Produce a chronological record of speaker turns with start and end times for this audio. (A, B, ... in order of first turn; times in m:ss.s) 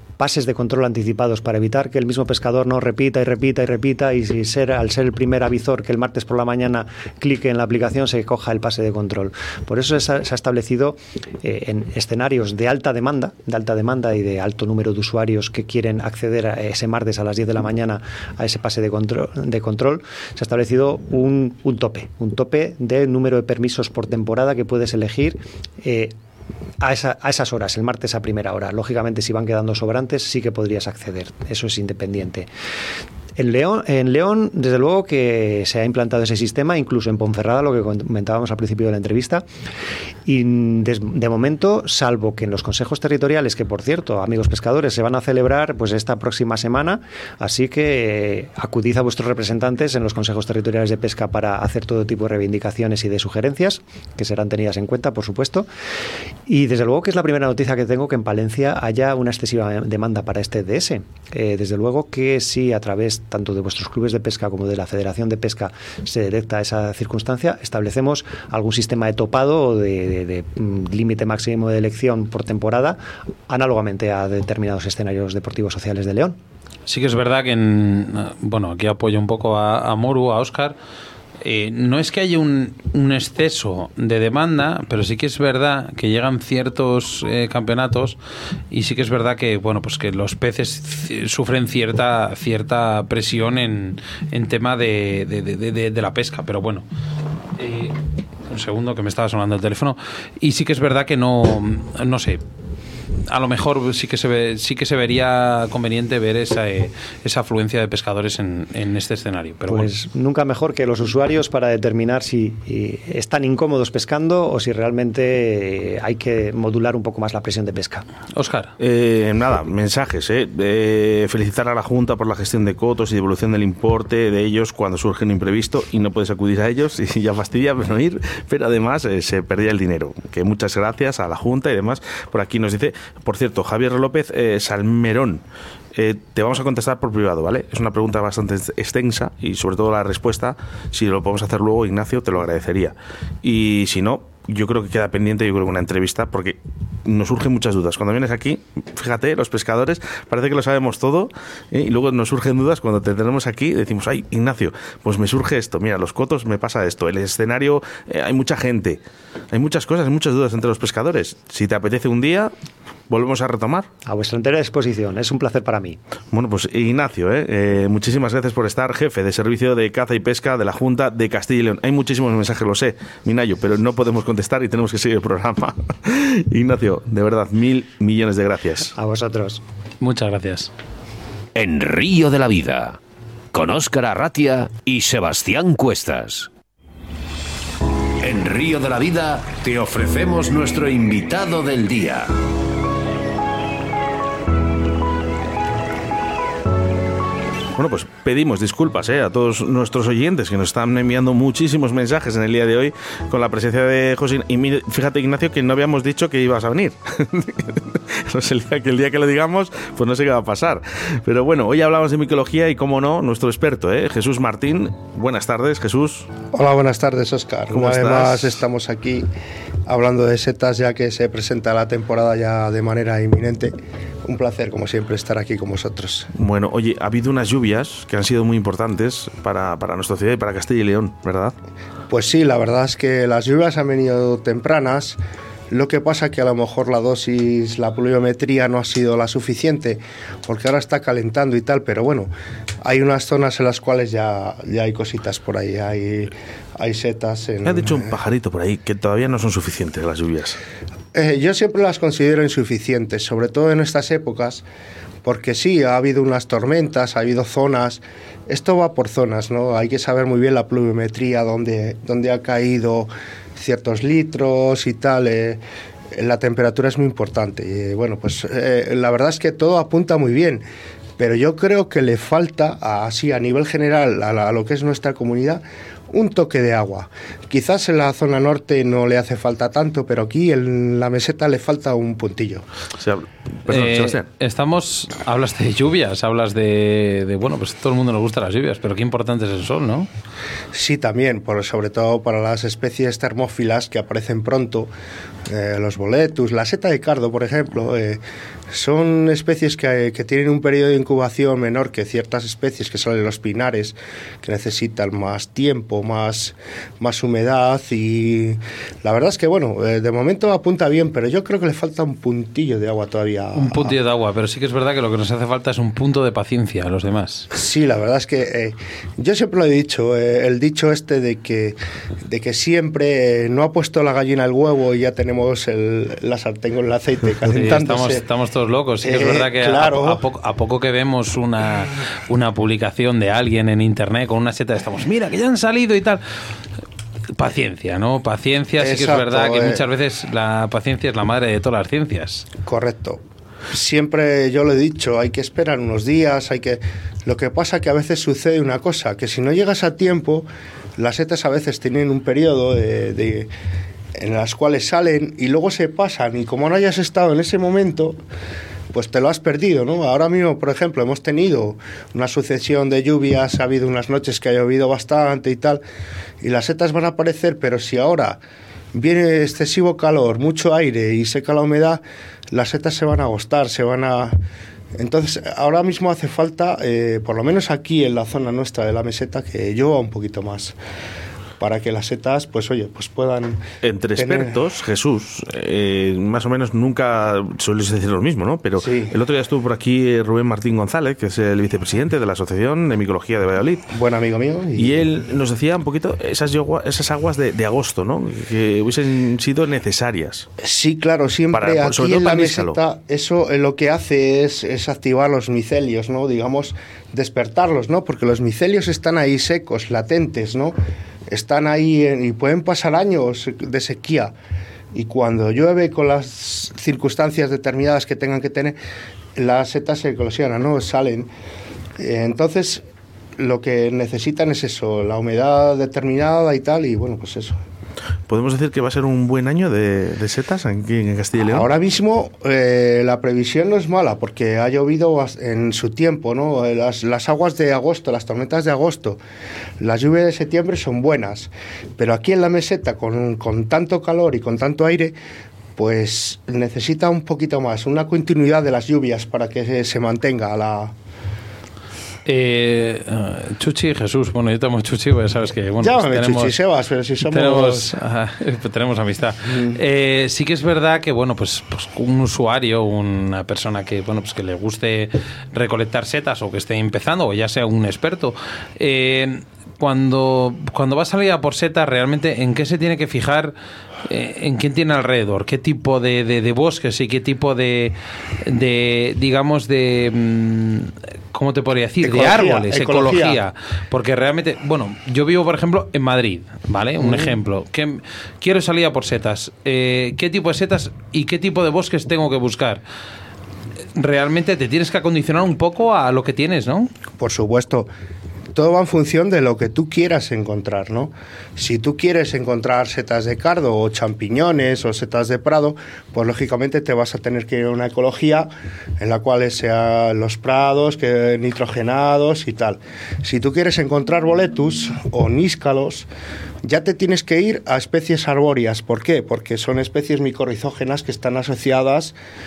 0:00.2-0:26.2 A
0:26.8-0:32.5 A
0:33.4-0:39.5 A
0:40.3-0:55.7 A
0:56.5-1:16.4 A
1:16.9-1:20.8 B
1:21.4-1:28.2 B
1:28.7-1:36.9 B
1:37.6-1:38.0 B
1:38.5-1:42.4 B
1:43.3-1:49.9 B
1:49.7-1:58.0 A
1:58.4-1:58.7 B
1:58.8-2:15.4 C
2:16.0-2:39.0 C
2:39.5-2:42.5 C
2:43.1-2:43.9 C
2:44.1-2:46.0 A
2:46.3-2:58.9 C
2:59.0-2:59.6 A
3:00.0-3:00.7 B
3:01.6-3:03.0 D
3:03.5-3:06.5 D
3:08.2-3:12.3 D
3:17.8-3:36.3 C
3:36.5-3:39.3 E
3:37.7-3:38.6 C
3:39.9-3:43.8 E
3:44.3-3:46.3 E
3:46.4-3:51.6 C
3:52.1-3:55.2 E
3:55.7-4:02.3 E
4:02.8-4:08.1 E
4:07.6-4:10.6 C
4:11.1-4:14.6 E
4:15.2-4:25.6 E
4:26.1-4:30.6 E
4:31.2-4:42.6 E
4:43.0-4:44.2 C
4:43.7-4:50.1 B
4:50.7-4:54.9 E
4:55.5-5:14.0 E
5:13.6-5:17.5 B
5:17.5-5:28.2 E
5:27.4-5:36.2 B
5:29.0-5:30.2 E
5:37.4-5:42.5 B
5:38.8-5:39.8 E
5:42.6-5:43.2 E
5:43.7-5:53.5 E
5:54.2-5:58.2 E
5:58.9-6:05.8 E
6:06.4-6:08.4 E
6:09.0-6:14.4 E
6:15.0-6:20.8 E
6:21.6-6:23.6 E
6:23.8-6:33.9 C
6:24.2-6:24.6 E
6:28.8-6:29.2 E
6:33.9-6:35.1 E
6:34.8-6:40.5 C
6:40.6-6:50.8 E
6:41.5-6:42.8 C
6:51.3-6:54.3 E
6:54.9-6:58.8 E
6:59.4-7:01.3 E
7:02.0-7:02.8 E
7:03.4-7:07.6 E
7:08.3-7:11.7 C
7:11.5-7:19.2 E
7:19.8-7:25.2 E
7:25.8-7:30.9 E
7:32.3-7:36.6 B
7:35.8-7:37.9 E
7:37.2-7:53.5 B
7:39.5-7:39.8 E
7:54.0-8:12.8 B
8:02.0-8:03.4 E
8:07.0-8:07.3 E
8:14.0-8:16.9 B
8:17.2-8:17.9 E
8:18.5-8:36.1 E
8:36.6-8:42.2 E